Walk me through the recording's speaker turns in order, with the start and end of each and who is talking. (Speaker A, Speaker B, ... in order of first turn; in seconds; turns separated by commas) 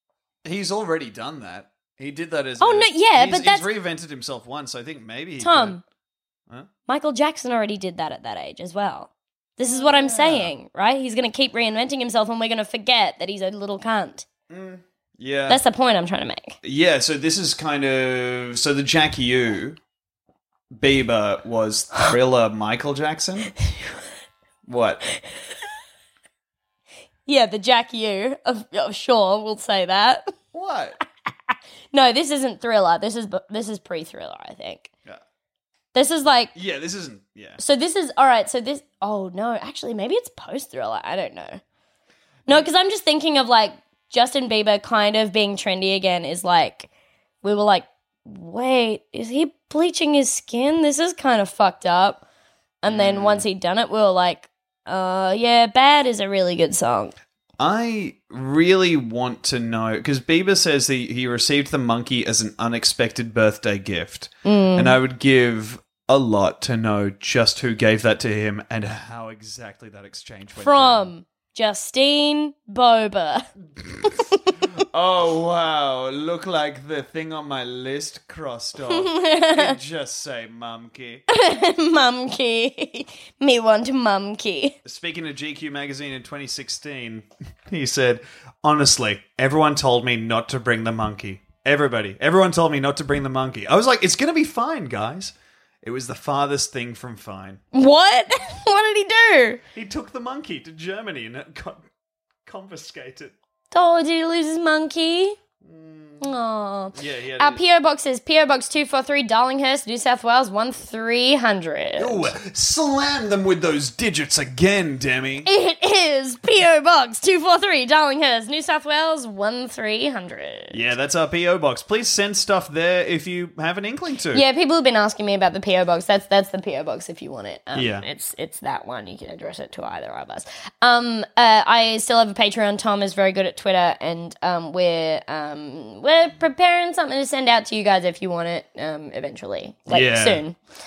Speaker A: 0.5-5.8, Speaker B: 2.6-3.7, Speaker B: 5.4-5.8, Speaker B: 6.9-14.3, Speaker A: 9.7-10.5, Speaker A: 14.5-15.6, Speaker B: 15.5-16.6, Speaker A: 16.6-19.8, Speaker A: 20.8-23.5, Speaker A: 24.7-25.0, Speaker B: 27.3-30.3, Speaker A: 30.5-31.0, Speaker B: 31.9-34.9, Speaker B: 35.9-36.5, Speaker A: 36.5-37.6, Speaker B: 37.6-41.6, Speaker B: 42.5-46.9, Speaker B: 47.4-52.2, Speaker B: 52.8-57.1, Speaker A: 52.9-53.5, Speaker A: 57.6-71.1, Speaker B: 64.5-65.0, Speaker B: 70.6-73.5, Speaker A: 73.8-74.2, Speaker A: 74.8-81.2, Speaker B: 78.9-79.8, Speaker B: 81.3-84.8, Speaker A: 84.8-97.6, Speaker B: 97.7-99.6, Speaker A: 99.8-101.8, Speaker A: 102.5-103.3, Speaker B: 103.7-105.4, Speaker A: 105.6-106.3, Speaker B: 106.2-112.3, Speaker A: 107.0-107.6, Speaker A: 112.0-115.5, Speaker B: 115.5-120.8, Speaker A: 120.7-124.4, Speaker B: 124.3-140.6, Speaker A: 127.7-128.1, Speaker A: 139.9-140.4